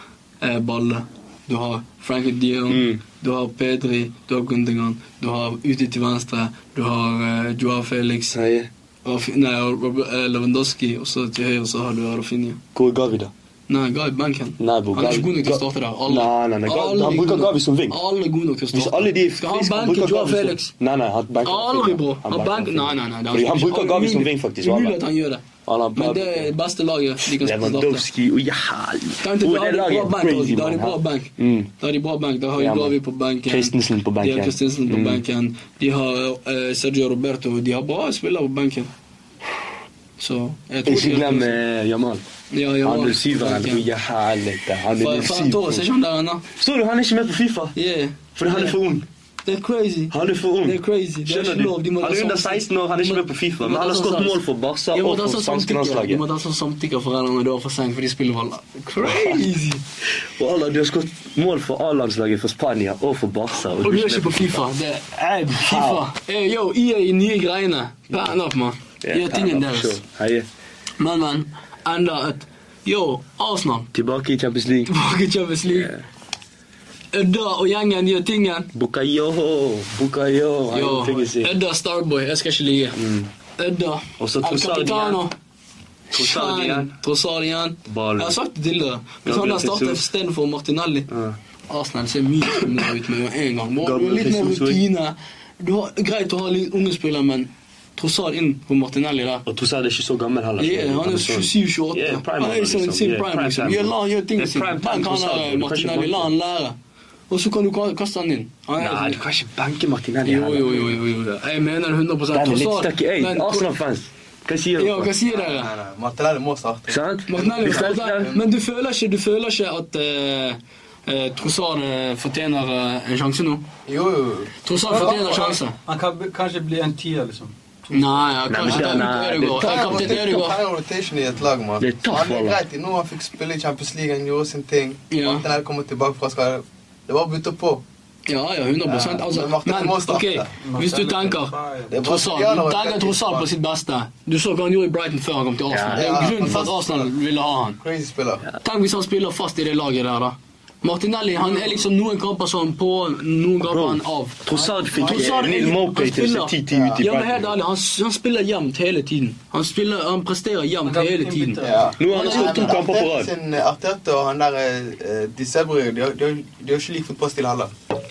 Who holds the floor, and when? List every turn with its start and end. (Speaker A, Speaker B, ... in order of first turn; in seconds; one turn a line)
Speaker A: 0.4-8.4
Speaker B: 2.7-3.0
Speaker B: 8.3-8.7
Speaker A: 9.1-12.6
Speaker B: 12.8-13.3
Speaker A: 13.7-20.7
Speaker B: 14.6-18.0
Speaker B: 18.7-25.0
Speaker A: 21.4-28.1
Speaker B: 25.6-26.5
Speaker B: 27.2-31.7
Speaker A: 29.2-38.9
Speaker B: 32.6-35.2
Speaker A: 40.2-41.6
Speaker B: 40.9-42.2
Speaker A: 42.5-43.9
Speaker B: 42.8-45.9
Speaker A: 45.0-46.5
Speaker B: 46.5-47.8
Speaker A: 47.8-48.8
Speaker B: 48.4-49.1
Speaker A: 49.5-54.4
Speaker B: 50.1-56.2
Speaker A: 54.9-59.8
Speaker B: 59.0-59.4
Speaker B: 60.2-64.6
Speaker A: 63.8-70.0
Speaker B: 65.5-66.1
Speaker B: 69.0-70.5
Speaker A: 71.0-73.9
Speaker B: 73.9-74.9
Speaker A: 74.9-75.9
Speaker B: 75.7-76.0
Speaker A: 77.1-78.7
Speaker B: 78.7-81.5
Speaker A: 80.7-83.0
Speaker B: 83.0-83.3
Speaker A: 83.6-85.3
Speaker B: 84.2-85.2
Speaker B: 86.1-87.0
Speaker A: 86.1-91.1
Speaker B: 87.9-88.4
Speaker B: 89.2-90.0
Speaker B: 91.1-91.4
Speaker A: 91.7-99.5
Speaker B: 93.8-94.8
Speaker B: 99.5-106.3
Speaker A: 100.6-106.8
Speaker A: 107.3-109.2
Speaker B: 108.8-110.9
Speaker A: 110.2-113.7
Speaker B: 112.3-115.1
Speaker A: 114.8-115.7
Speaker C: 115.3-118.5
Speaker B: 116.9-118.4
Speaker A: 117.3-123.7
Speaker C: 123.9-125.6
Speaker A: 124.6-125.8
Speaker D: 124.9-128.8
Speaker A: 127.9-130.6
Speaker B: 128.5-130.2
Speaker C: 129.4-137.8
Speaker B: 131.8-132.6
Speaker A: 135.1-135.5
Speaker A: 138.3-147.8
Speaker C: 138.8-140.5
Speaker D: 140.6-141.9
Speaker C: 141.9-143.5
Speaker B: 145.7-146.4
Speaker C: 145.9-147.1
Speaker C: 147.8-148.4
Speaker A: 148.6-162.8
Speaker B: 153.7-157.6
Speaker C: 156.7-157.0
Speaker D: 160.8-162.0
Speaker C: 161.6-167.7
Speaker B: 162.0-163.3